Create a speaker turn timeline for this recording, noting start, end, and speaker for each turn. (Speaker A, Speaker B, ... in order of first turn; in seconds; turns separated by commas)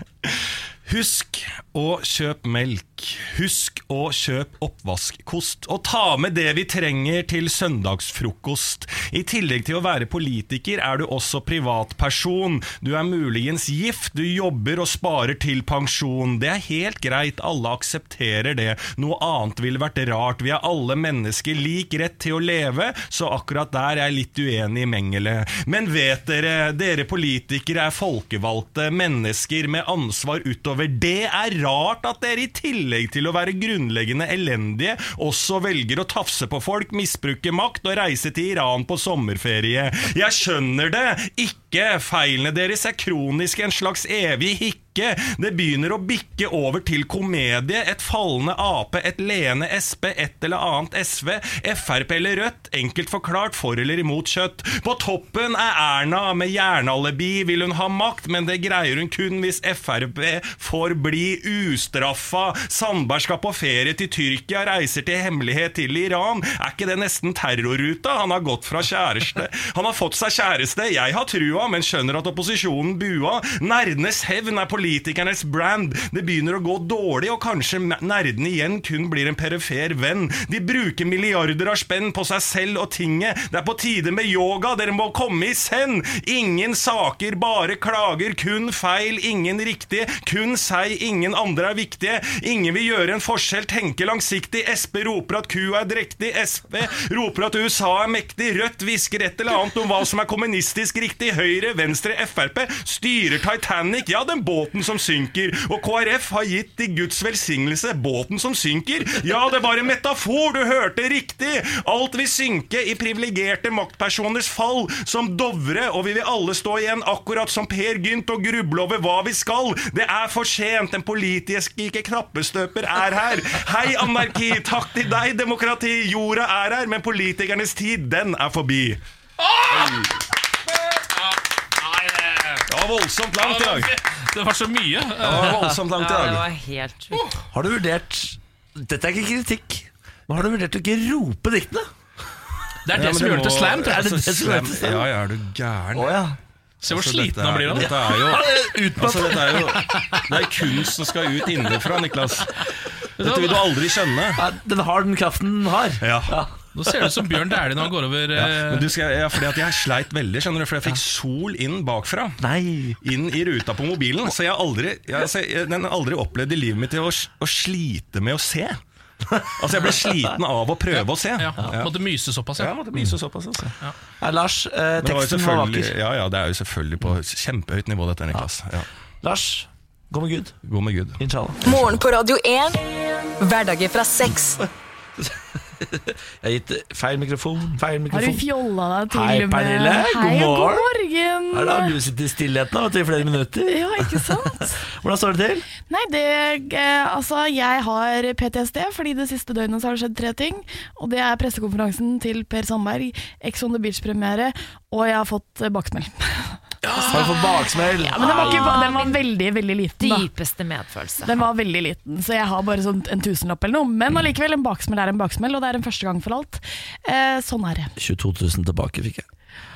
Speaker A: 0.2-129.0, Speaker B: 129.4-130.1, Speaker A: 129.7-130.1, Speaker B: 131.0-132.7, Speaker A: 132.7-133.9, Speaker B: 133.4-135.8, Speaker A: 135.2-136.5, Speaker C: 136.0-137.3, Speaker D: 137.5-141.9, Speaker B: 142.8-144.2, Speaker A: 142.9-146.2, Speaker D: 143.7-145.1, Speaker D: 145.9-146.4, Speaker B: 146.8-148.1, Speaker A: 146.9-152.6, Speaker D: 147.7-150.7, Speaker B: 153.2-153.8, Speaker A: 153.2-154.4, Speaker D: 154.3-156.6, Speaker A: 156.0-156.4, Speaker B: 156.7-158.9, Speaker A: 158.3-162.4, Speaker D: 162.4-163.0, Speaker A: 163.0-168.8, Speaker D: 169.3-170.4, Speaker A: 169.6-171.9, Speaker B: 170.9-172.9, Speaker A: 172.6-173.7, Speaker D: 172.9-176.0, Speaker A: 175.0-178.9, Speaker D: 179.2-180.6, Speaker A: 180.6-181.2, Speaker D: 181.2-181.7, Speaker E: 181.6-182.8, Speaker E: 183.4-184.6, Speaker D: 184.3-188.5, Speaker F: 188.1-192.0, Speaker D: 189.1-190.9, Speaker D: 191.5-195.7, Speaker F: 193.7-194.8, Speaker F: 195.8-206.6, Speaker D: 207.0-208.8, Speaker C: 207.1-207.5, Speaker C: 208.0-209.2, Speaker F: 208.1-210.3, Speaker C: 210.0-211.3, Speaker F: 211.2-217.9, Speaker D: 218.0-219.3